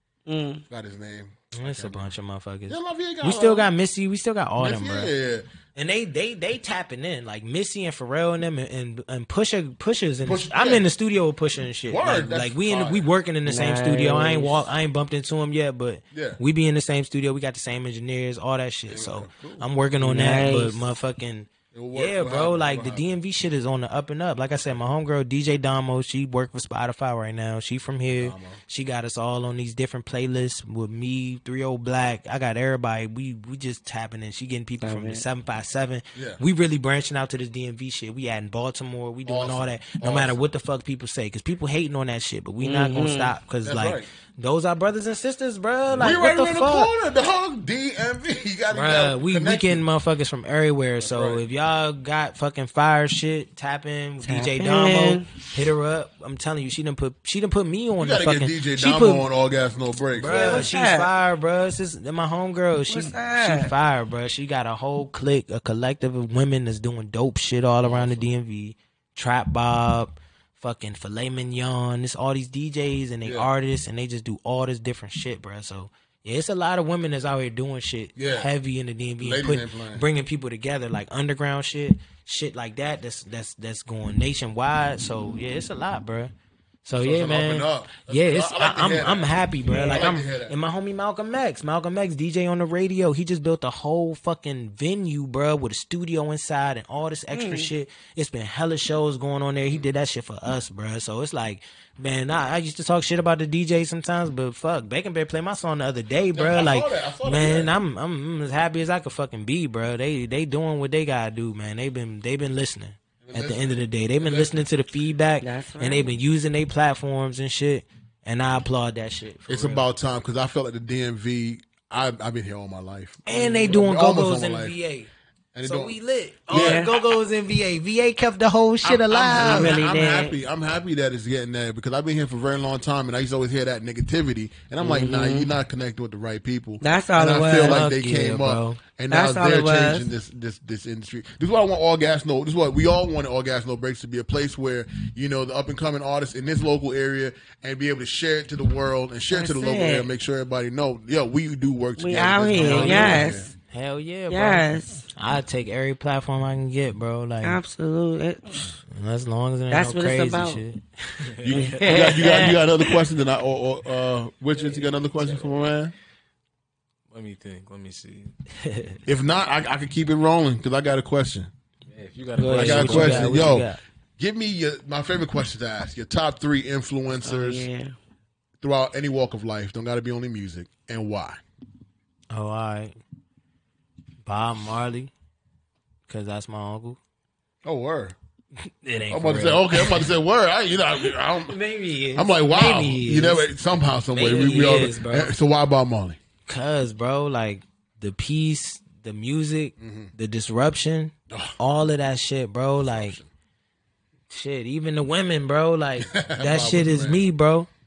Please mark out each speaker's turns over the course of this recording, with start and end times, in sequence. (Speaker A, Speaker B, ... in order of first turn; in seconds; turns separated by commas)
Speaker A: 0.3-0.7, Speaker B: 0.7-2.1, Speaker C: 1.5-5.1, Speaker B: 2.7-3.7, Speaker B: 4.6-5.5, Speaker C: 5.8-46.9, Speaker B: 10.2-10.9, Speaker B: 11.9-13.1, Speaker A: 13.5-14.7, Speaker B: 16.1-16.4, Speaker B: 18.9-19.7, Speaker A: 20.0-20.8, Speaker B: 21.7-23.0, Speaker B: 28.1-28.6, Speaker A: 34.8-35.2, Speaker B: 36.1-36.4, Speaker B: 39.2-40.4, Speaker A: 42.6-43.4, Speaker B: 43.6-44.1, Speaker B: 46.0-49.8, Speaker C: 48.7-59.3, Speaker B: 51.0-51.4, Speaker A: 54.2-55.3, Speaker B: 58.0-60.7, Speaker C: 60.1-86.3, Speaker A: 60.3-61.1, Speaker A: 62.9-63.7, Speaker B: 67.8-68.3, Speaker B: 73.2-73.5, Speaker B: 78.2-78.5, Speaker B: 79.2-80.1, Speaker C: 86.8-119.9, Speaker B: 87.0-90.6, Speaker A: 89.7-90.1, Speaker A: 97.3-97.7, Speaker B: 106.3-107.7, Speaker B: 113.2-114.5, Speaker A: 115.4-116.1, Speaker B: 119.5-124.8, Speaker C: 123.3-125.1, Speaker A: 123.3-123.8, Speaker B: 125.5-126.9, Speaker C: 125.6-129.8, Speaker A: 126.5-126.9, Speaker B: 128.8-153.5, Speaker A: 129.3-130.4, Speaker A: 134.8-135.5, Speaker A: 136.8-137.9, Speaker C: 137.6-138.8, Speaker A: 139.1-140.1, Speaker A: 149.3-150.1, Speaker A: 152.0-153.5, Speaker C: 152.6-157.6, Speaker A: 154.3-155.1, Speaker A: 157.4-158.8, Speaker C: 158.9-161.2, Speaker A: 159.7-160.6, Speaker D: 161.3-162.1, Speaker B: 161.4-165.9, Speaker A: 161.5-162.9, Speaker D: 164.6-165.5, Speaker D: 167.1-168.3, Speaker C: 168.6-169.0, Speaker B: 169.1-171.5, Speaker D: 171.9-173.6, Speaker C: 172.4-173.8, Speaker B: 172.5-177.7, Speaker A: 177.2-177.9, Speaker B: 178.6-181.4, Speaker C: 182.3-183.0, Speaker C: 184.2-185.1, Speaker C: 186.1-187.0, Speaker B: 187.6-188.2, Speaker C: 188.8-190.1, Speaker B: 189.1-191.6, Speaker C: 191.5-193.5, Speaker B: 192.1-196.2, Speaker C: 194.1-195.3, Speaker C: 196.5-203.2, Speaker B: 199.8-200.1, Speaker B: 201.3-201.6, Speaker B: 202.8-203.3, Speaker C: 204.3-207.7, Speaker B: 206.0-207.3